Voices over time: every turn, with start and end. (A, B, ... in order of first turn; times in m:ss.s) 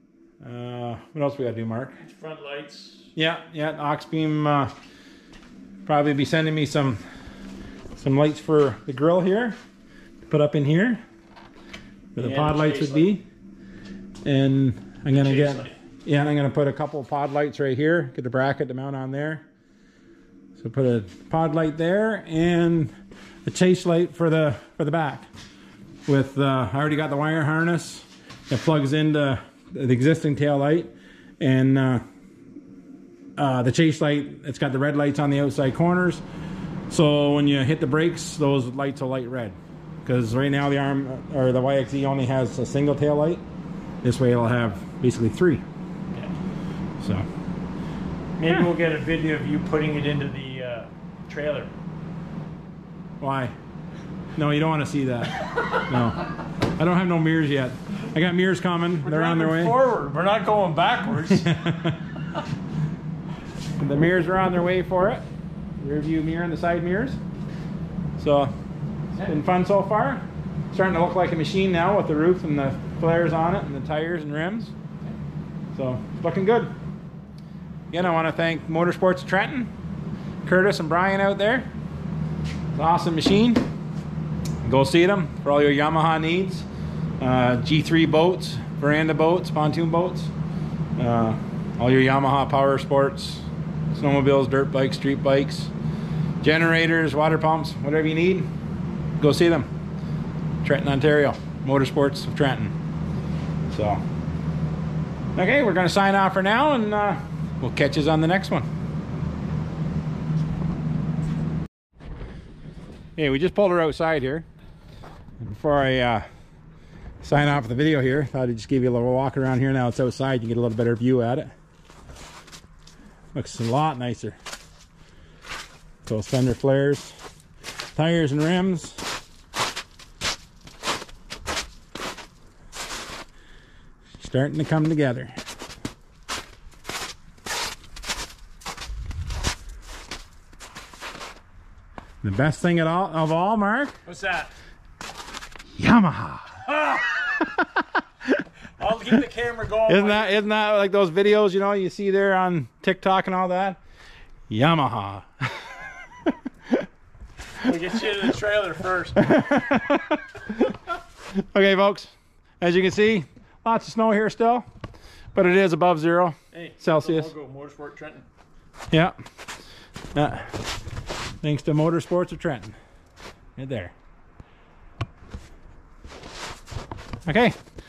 0:00.4-0:02.0 A
0:02.0-0:03.1 B
0:03.1-0:04.7 A
0:05.8-0:07.0 A
0:08.0-0:09.6 A
0:10.3-0:11.0 A
0:12.1-0:13.2 A
0:12.2-0:13.1 B
0:14.2-0:19.4 A
0:15.1-0:15.7 B
0:20.6-0:22.9 A
0:23.4-0:25.3 A
0:26.0-0:32.0 A
0:33.4-0:36.2 A
0:36.9-0:43.4 A
0:44.0-0:45.6 A
0:47.0-0:47.2 A
0:48.4-0:51.7 B
0:53.2-0:53.5 A
0:54.4-0:59.8 A
0:59.0-1:01.5 B
1:01.3-1:02.0 A
1:03.8-1:05.2 A
1:05.8-1:07.2 A
1:08.2-1:08.5 A
1:09.2-1:14.7 A
1:15.7-1:16.7 A
1:17.9-1:19.7 A
1:20.4-1:21.7 A
1:22.7-1:23.6 A
1:24.6-1:26.6 A
1:27.2-1:30.3 A
1:31.0-1:35.7 A
1:36.4-1:38.5 A
1:39.2-1:39.7 A
1:40.6-1:42.7 A
1:43.7-1:44.0 A
1:45.4-1:48.7 A
1:53.2-1:54.4 A
1:55.4-1:56.3 A
1:57.2-2:01.5 A
2:03.3-2:04.4 A
2:06.0-2:07.2 A
2:07.9-2:09.0 A
2:14.2-2:15.3 A
2:22.2-2:23.9 A
2:24.0-2:24.5 B
2:25.8-2:26.6 A
2:26.6-2:27.2 B
2:27.5-2:27.9 A
2:28.8-2:30.4 B
2:29.9-2:33.8 A
2:34.5-2:36.9 A
2:37.6-2:39.3 B
2:39.2-2:40.8 A
2:41.3-2:44.7 A
2:45.3-2:47.3 A
2:46.5-2:48.3 B
2:48.9-2:49.2 A
2:50.1-2:50.6 A
2:51.4-2:52.8 A
2:53.6-2:53.9 A
2:57.2-2:57.6 A